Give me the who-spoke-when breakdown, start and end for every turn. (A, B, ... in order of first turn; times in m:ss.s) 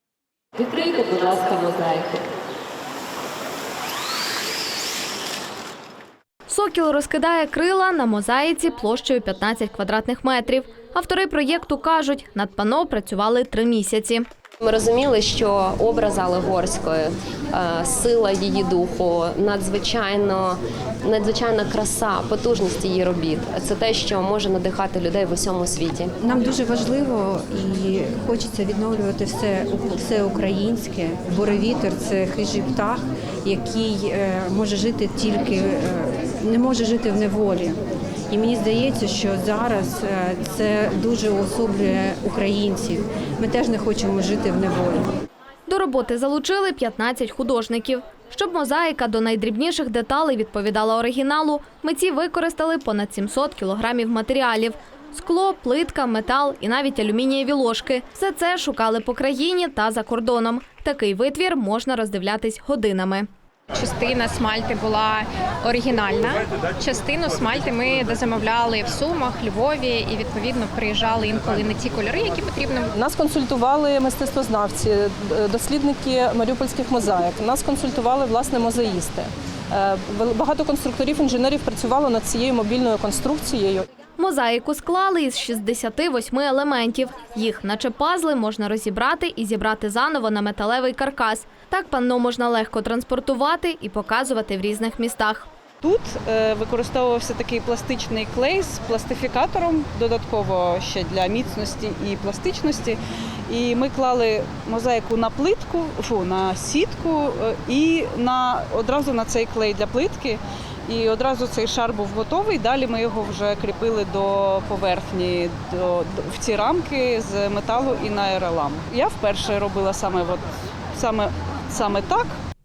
0:00.6-0:02.2 A
0:06.5-0:14.2 B
0:14.6-0:26.1 A
0:26.2-0:37.8 C
0:38.3-0:45.1 C
0:45.7-1:03.3 B
1:03.7-1:12.9 D
1:12.9-1:23.8 E
1:24.2-1:35.5 B
1:35.8-1:43.0 F
1:43.5-2:00.4 F
2:01.0-2:02.3 F